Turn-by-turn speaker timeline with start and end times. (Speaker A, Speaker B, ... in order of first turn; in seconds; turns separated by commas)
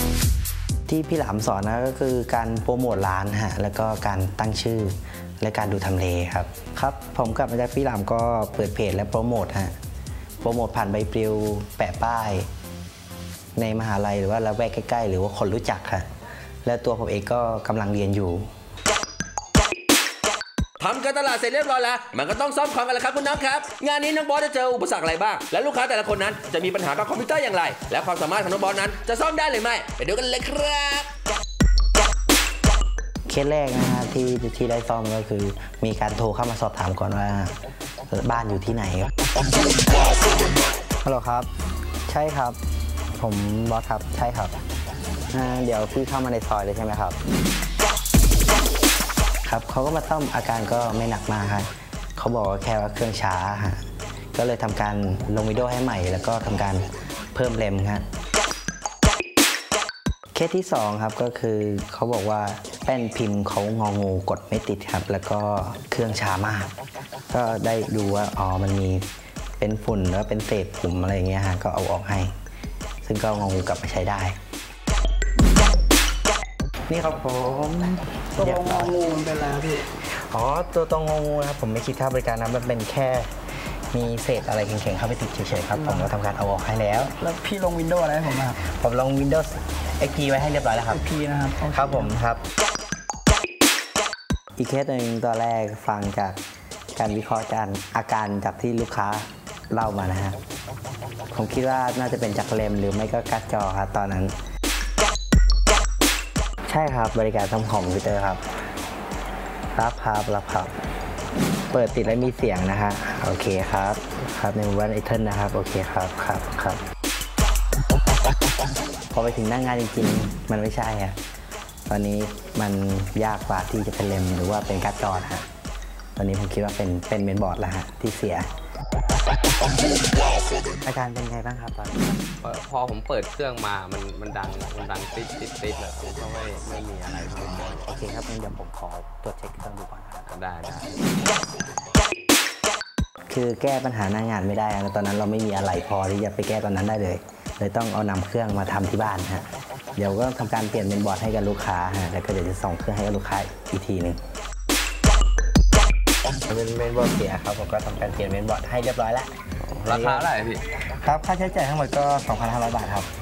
Speaker A: 0.9-9.7, Speaker A: 10.4-12.5, Speaker A: 13.6-16.1, Speaker A: 16.6-18.5, Speaker B: 20.8-31.1, Speaker A: 33.3-37.5, Speaker A: 38.1-39.1, Speaker A: 41.0-41.5, Speaker A: 42.1-42.6, Speaker A: 43.2-44.6, Speaker A: 45.3-47.2, Speaker A: 49.5-53.8, Speaker A: 54.4-58.0, Speaker A: 60.3-66.7, Speaker A: 67.3-69.0, Speaker A: 69.6-72.3, Speaker A: 73.0-74.4, Speaker A: 76.9-79.0, Speaker C: 78.4-79.8, Speaker A: 80.1-83.3, Speaker A: 83.9-87.1, Speaker C: 85.8-86.1, Speaker C: 87.2-88.6, Speaker A: 88.6-91.1, Speaker C: 90.9-92.1, Speaker A: 91.6-92.4, Speaker A: 94.6-96.4, Speaker A: 97.0-100.4, Speaker A: 101.3-104.3, Speaker A: 106.7-108.4, Speaker A: 109.8-110.7, Speaker A: 111.7-116.8, Speaker A: 119.1-121.2, Speaker A: 121.9-125.5, Speaker A: 126.2-128.5, Speaker A: 130.8-132.1, Speaker D: 132.4-137.9, Speaker A: 137.8-140.3, Speaker D: 140.3-141.0, Speaker A: 143.3-154.2, Speaker A: 156.5-159.3, Speaker D: 159.6-160.6, Speaker A: 159.8-160.3, Speaker A: 161.0-163.1